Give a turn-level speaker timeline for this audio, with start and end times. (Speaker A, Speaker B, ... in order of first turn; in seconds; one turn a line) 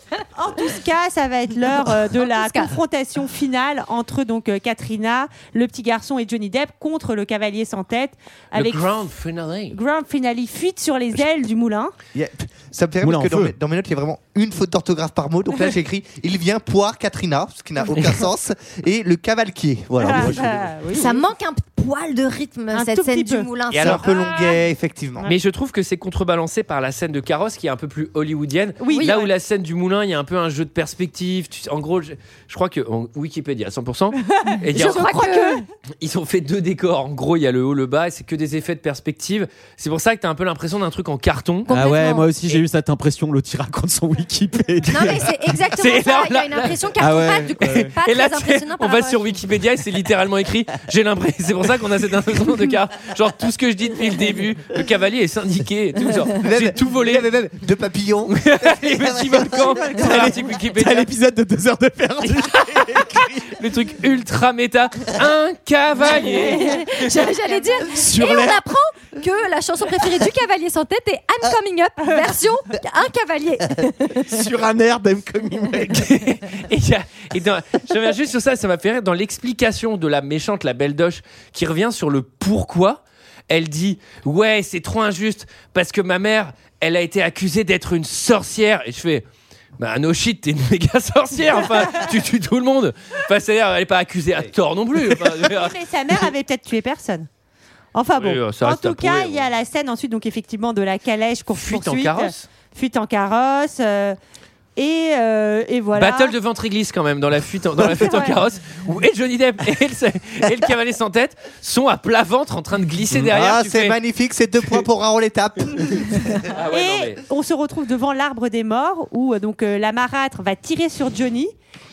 Speaker A: 0.3-8.9
Speaker B: 2.2-2.8
Speaker C: 8.5-9.8
Speaker A: 9.7-11.9
Speaker D: 12.1-20.7
Speaker E: 13.0-13.5
Speaker A: 20.0-21.2
Speaker B: 20.9-24.4
Speaker A: 22.7-23.5
Speaker D: 23.7-25.3
Speaker C: 23.8-24.1
Speaker C: 25.2-35.2
Speaker A: 28.8-29.3
Speaker B: 28.9-29.2
Speaker A: 34.2-35.7
Speaker B: 34.7-35.6
Speaker C: 36.0-41.7
Speaker B: 41.7-42.3
Speaker E: 41.7-45.3
Speaker B: 44.9-49.4
Speaker C: 45.8-46.7
Speaker E: 47.0-47.9
Speaker C: 48.0-57.3
Speaker D: 56.4-60.5
Speaker C: 58.3-61.1
Speaker E: 60.0-63.1
Speaker C: 62.2-66.8
Speaker A: 66.4-66.8
Speaker B: 66.4-74.3
Speaker E: 67.8-68.7
Speaker E: 74.2-76.1
Speaker C: 75.9-89.2
Speaker C: 89.8-95.8
Speaker A: 95.5-97.3
Speaker A: 97.9-104.2
Speaker C: 98.2-99.5
Speaker C: 101.5-102.5
Speaker A: 104.8-106.3
Speaker C: 105.9-114.0
Speaker A: 107.9-108.4
Speaker D: 113.3-116.4
Speaker C: 116.5-117.2
Speaker A: 116.7-121.5